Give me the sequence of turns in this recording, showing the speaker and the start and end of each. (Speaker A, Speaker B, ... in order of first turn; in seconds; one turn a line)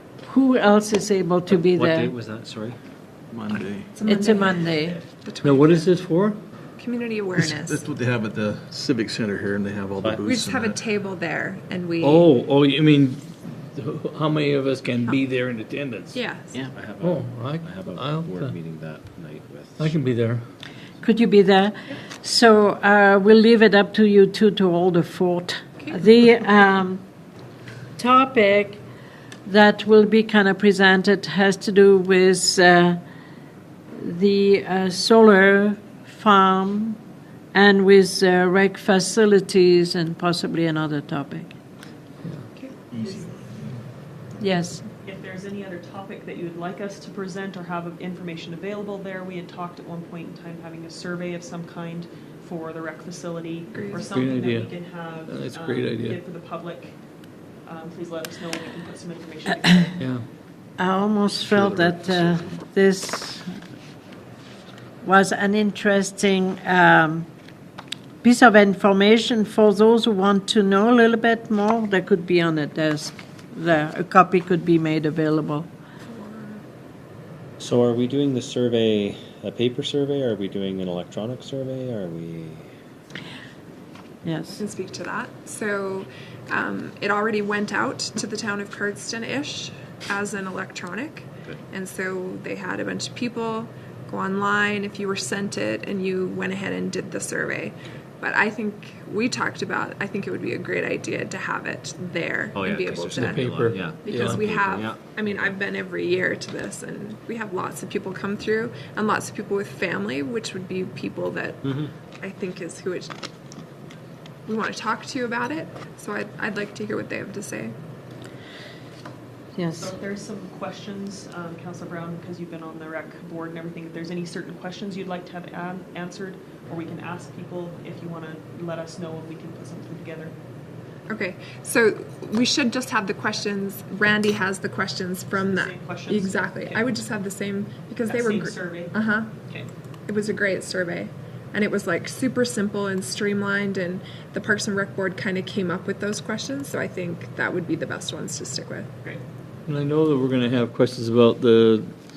Speaker A: 0.2-2.1
Speaker B: 1.6-2.8
Speaker C: 3.3-3.9
Speaker D: 3.9-4.7
Speaker A: 4.0-5.0
Speaker D: 5.2-5.9
Speaker E: 5.4-6.4
Speaker D: 6.8-7.8
Speaker C: 7.4-10.8
Speaker B: 10.0-10.3
Speaker D: 10.2-12.3
Speaker E: 12.0-16.2
Speaker D: 16.1-16.7
Speaker B: 16.5-20.0
Speaker E: 17.0-18.6
Speaker E: 19.8-20.4
Speaker A: 21.0-27.0
Speaker A: 28.0-28.8
Speaker A: 29.5-33.0
Speaker A: 34.0-37.0
Speaker A: 37.5-41.5
Speaker D: 42.5-43.2
Speaker C: 42.9-43.3
Speaker A: 44.4-44.9
Speaker F: 45.0-57.0
Speaker D: 53.7-54.1
Speaker E: 54.1-54.7
Speaker E: 55.3-56.2
Speaker F: 57.6-60.1
Speaker E: 60.0-60.2
Speaker A: 60.8-63.5
Speaker B: 62.1-62.5
Speaker A: 65.0-67.3
Speaker A: 68.2-75.7
Speaker D: 76.1-76.6
Speaker B: 77.6-82.7
Speaker A: 84.2-84.6
Speaker D: 84.5-111.7
Speaker B: 102.5-105.6
Speaker E: 103.2-104.4
Speaker B: 111.7-111.9
Speaker D: 112.2-113.1
Speaker D: 114.5-117.7
Speaker A: 119.6-119.9
Speaker F: 119.8-130.3
Speaker D: 131.1-139.3
Speaker F: 135.3-137.0
Speaker F: 138.1-139.7
Speaker D: 140.1-148.9
Speaker E: 149.7-151.9